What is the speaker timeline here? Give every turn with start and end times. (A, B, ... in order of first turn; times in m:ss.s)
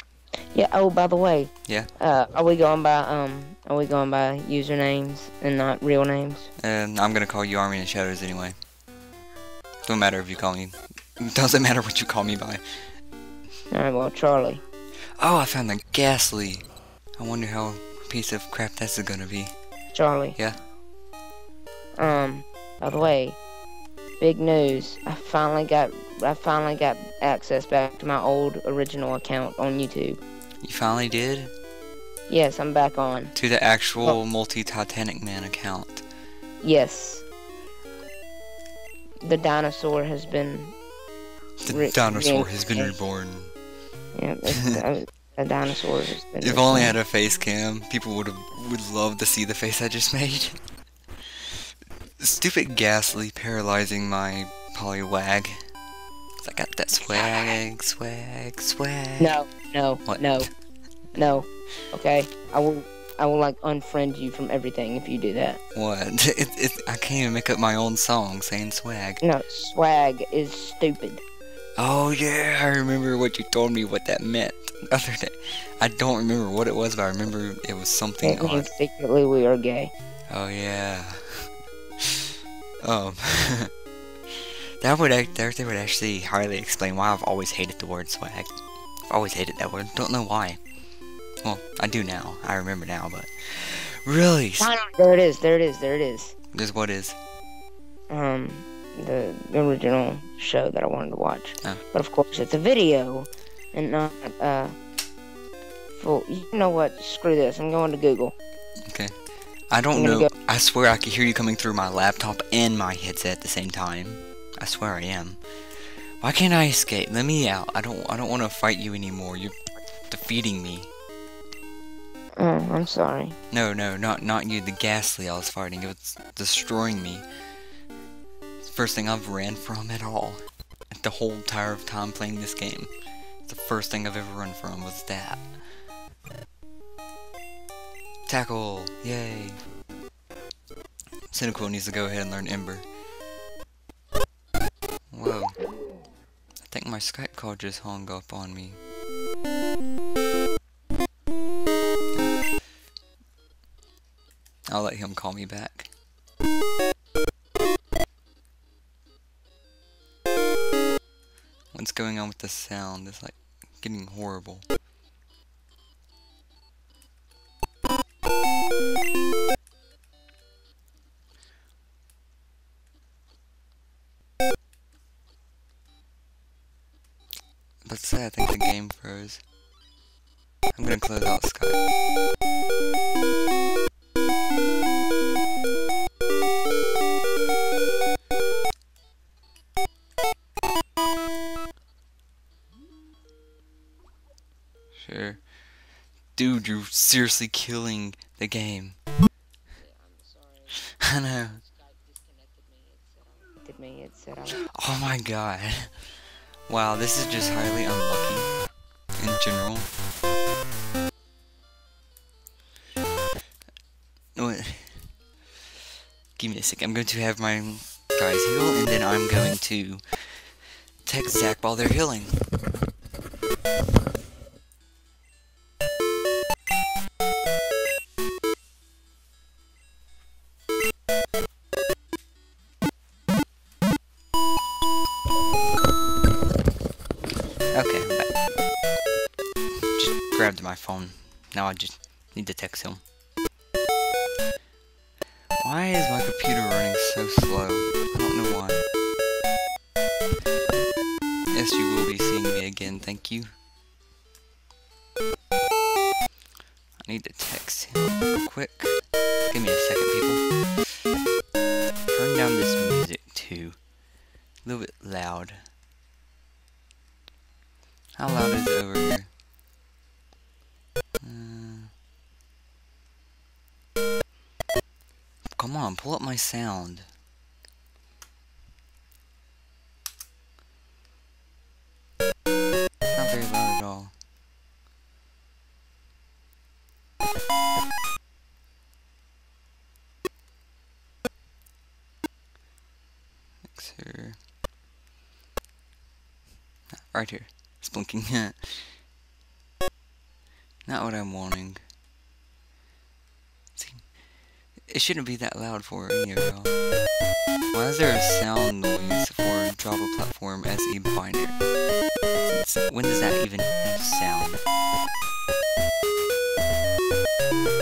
0:00.5-0:06.5 A
0:01.7-0:01.9 B
0:06.6-0:08.6 B
0:09.8-0:13.0 B
0:13.7-0:14.6 A
0:15.0-0:19.6 B
0:19.9-0:20.4 A
0:20.4-0:20.6 B
0:22.0-0:23.4 A
0:24.2-0:30.2 A
0:30.6-0:31.5 B
0:32.3-0:33.3 A
0:33.4-0:36.0 B
0:36.6-0:37.2 A
0:39.2-0:40.8 A
0:41.6-0:43.6 B
0:41.7-0:43.0 A
0:44.1-0:47.0 A
0:46.4-0:50.6 B
0:51.2-0:51.6 B
0:52.2-0:55.7 B
0:56.4-0:59.4 B
0:57.0-0:57.4 A
0:59.2-1:00.5 A
1:00.0-1:00.6 B
1:01.1-1:01.5 B
1:01.1-1:05.6 A
1:05.7-1:09.2 B
1:09.2-1:11.2 A
1:11.8-1:18.7 B
1:18.2-1:19.9 A
1:20.3-1:22.3 B
1:22.8-1:23.7 B
1:24.3-1:30.6 B
1:31.4-1:34.7 B
1:34.6-1:36.4 A
1:36.5-1:37.2 B
1:38.1-1:44.8 A
1:45.9-1:48.4 A
1:48.9-2:00.9 B
1:49.9-1:50.3 A
2:02.4-2:03.4 A
2:03.5-2:07.3 B
2:08.6-2:12.9 B
2:13.4-2:15.8 B
2:18.3-2:19.7 B
2:21.3-2:22.8 B
2:25.1-2:25.6 B
2:26.6-2:28.8 B
2:34.7-2:35.9 B
2:41.7-2:44.6 B
2:57.8-2:59.4 B
3:00.8-3:01.8 B
3:15.0-3:19.0 B
3:19.8-3:20.8 A
3:21.0-3:21.6 B
3:21.8-3:24.7 A
3:24.6-3:28.5 B
3:29.2-3:29.9 B
3:34.4-3:35.2 B
3:36.4-3:42.7 B
3:57.7-3:58.6 B
3:59.9-4:03.0 B
4:05.6-4:08.8 B
4:11.5-4:13.5 B
4:17.0-4:21.1 B
4:22.1-4:23.8 B
4:24.6-4:25.7 B
4:28.2-4:29.3 B
4:31.2-4:31.9 B
4:35.5-4:37.1 B
4:43.1-4:44.1 B
4:53.7-4:54.4 B
4:56.9-4:59.0 B
5:00.9-5:01.8 B
5:03.8-5:04.2 B
5:04.8-5:06.8 B
5:07.7-5:11.6 B
5:12.4-5:14.6 B